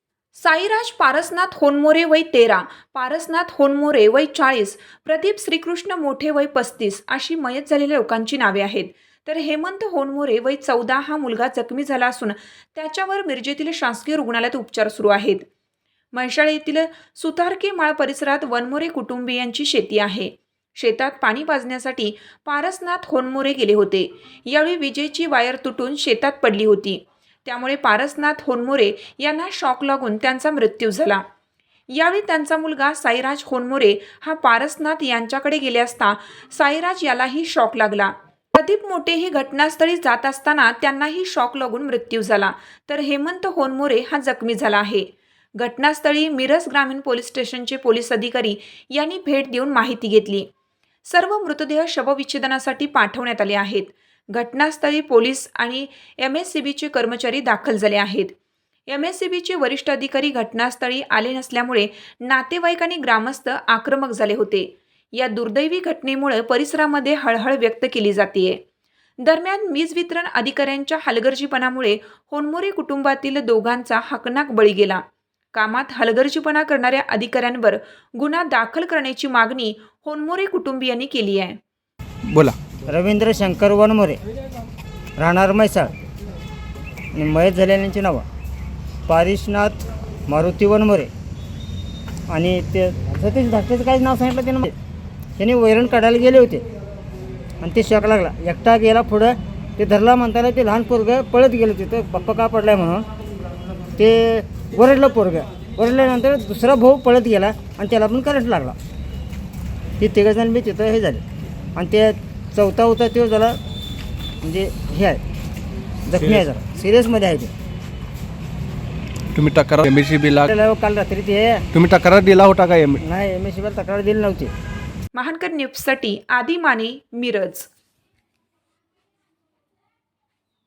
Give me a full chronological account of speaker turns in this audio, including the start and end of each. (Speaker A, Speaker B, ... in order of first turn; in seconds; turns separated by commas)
Speaker A: 0.3-15.4, Speaker A: 16.1-31.2, Speaker A: 31.9-50.5, Speaker A: 51.1-58.3, Speaker A: 58.9-68.6, Speaker A: 69.2-75.0, Speaker A: 75.5-81.6, Speaker B: 82.3-82.6, Speaker C: 82.9-84.2, Speaker C: 85.2-85.9, Speaker C: 87.2-88.2, Speaker C: 89.1-91.1, Speaker C: 92.3-94.8, Speaker C: 95.4-96.7, Speaker C: 97.6-103.1, Speaker C: 104.0-108.8, Speaker C: 110.0-111.2, Speaker C: 111.8-113.6, Speaker C: 114.4-115.2, Speaker C: 116.1-117.5, Speaker B: 119.3-120.5, Speaker C: 120.5-121.6, Speaker B: 121.7-123.0, Speaker C: 123.0-124.5, Speaker A: 125.1-127.7